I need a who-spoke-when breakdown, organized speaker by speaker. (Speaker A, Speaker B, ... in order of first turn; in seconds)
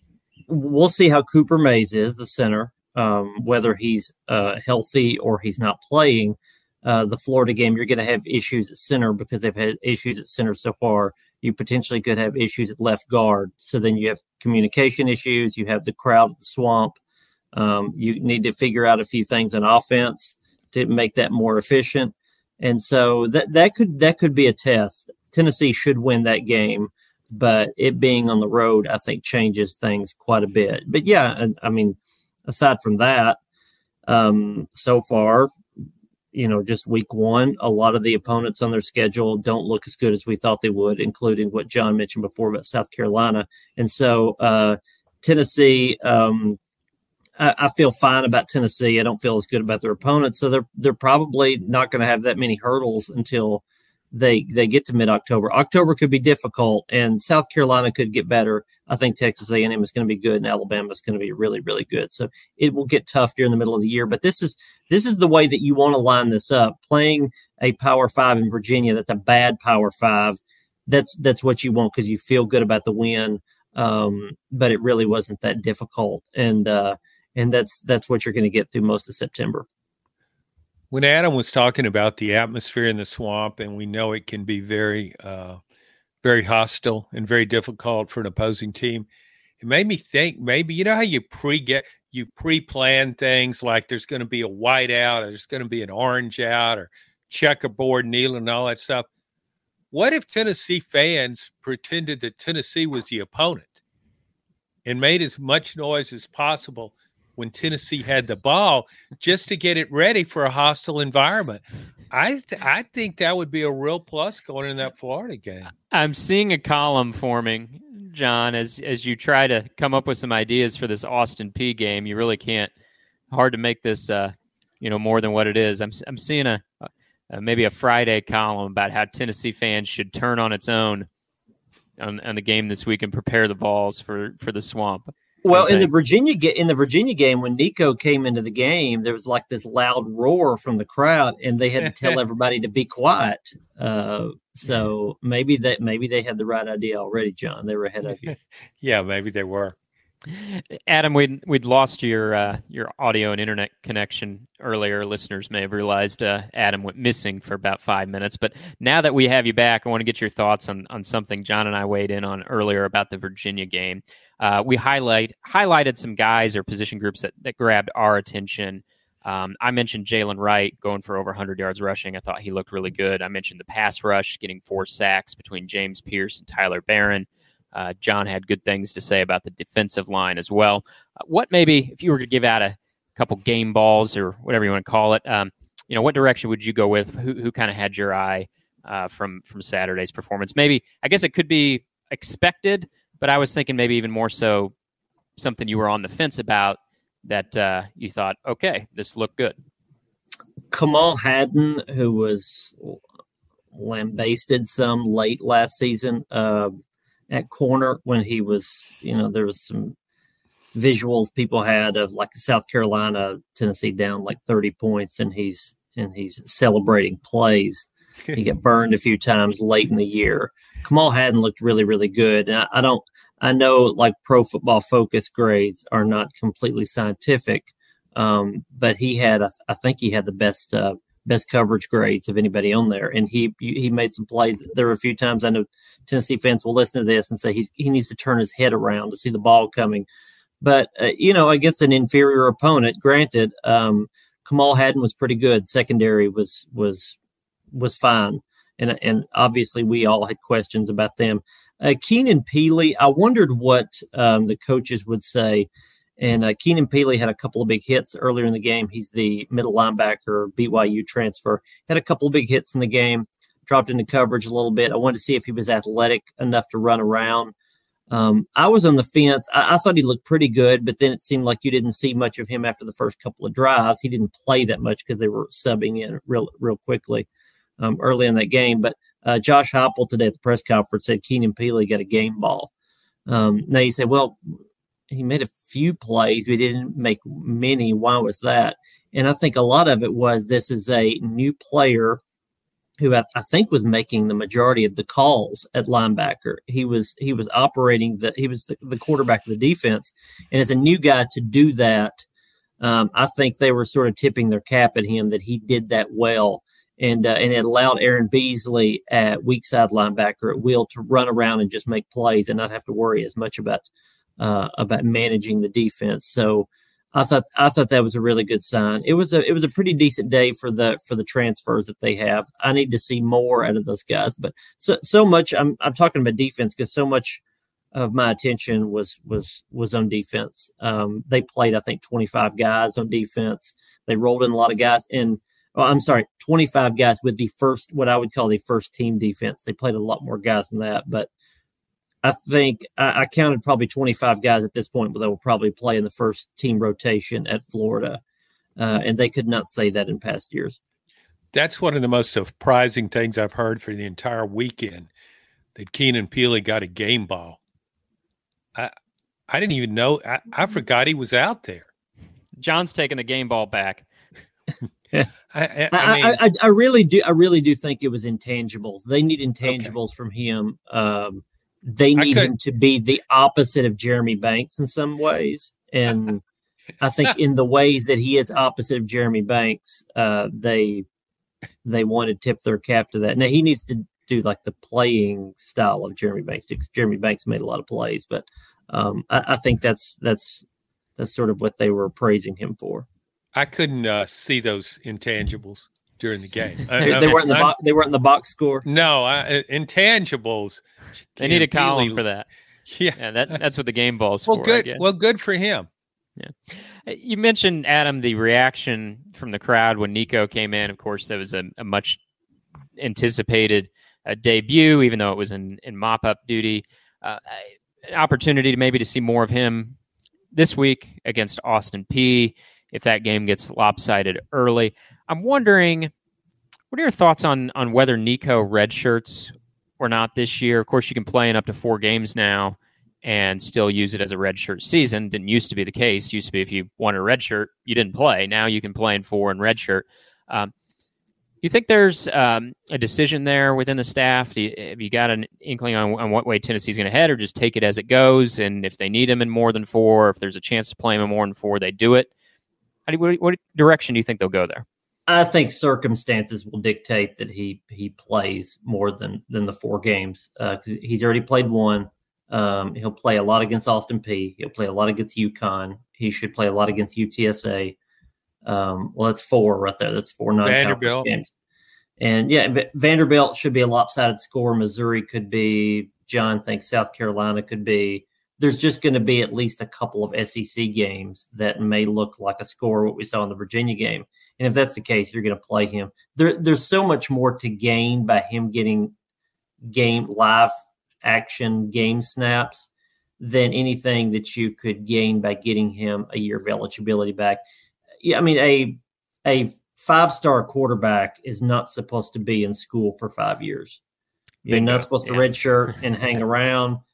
Speaker A: 0.5-17.0, 17.5-33.4, 34.1-35.5, 36.3-46.6, 47.4-79.7, 135.4-148.3, 200.7-203.0, 203.7-206.7, 207.3-209.9, 210.7-240.1, 240.6-247.2, 247.7-267.5, 268.1-277.3, 277.8-282.7, 283.3-284.5, 285.1-292.2, 293.0-302.2, 302.8-313.9, 314.4-327.4, 327.9-341.3, 342.2-348.2, 348.8-350.8, 365.9-376.4, 377.0-381.1, 381.8-390.6, 391.2-393.1, 397.0-398.8, 455.3-467.9, 468.6-471.5, 472.2-489.1, 489.9-490.7, 491.2-492.9, 493.4-497.6, 498.2-504.0, 504.6-507.0
Speaker B: 80.9-85.6, 86.2-89.1, 89.6-99.0, 99.9-103.8, 104.8-115.7, 148.3-149.7, 351.5-355.1, 355.7-357.6, 359.5-361.9, 365.5-366.4, 369.6-369.9, 372.1-372.5, 393.5-397.7, 398.9-402.2, 402.9-403.2, 404.5-405.9, 470.6-471.3, 504.7-505.0
Speaker C: 115.9-122.7, 123.3-131.1, 132.0-135.9, 150.3-194.7, 195.3-199.6, 362.6-364.0, 401.4-402.5, 403.2-405.0, 406.4-412.2, 413.0-420.0, 420.5-426.1, 426.9-440.7, 441.6-452.3, 453.1-454.9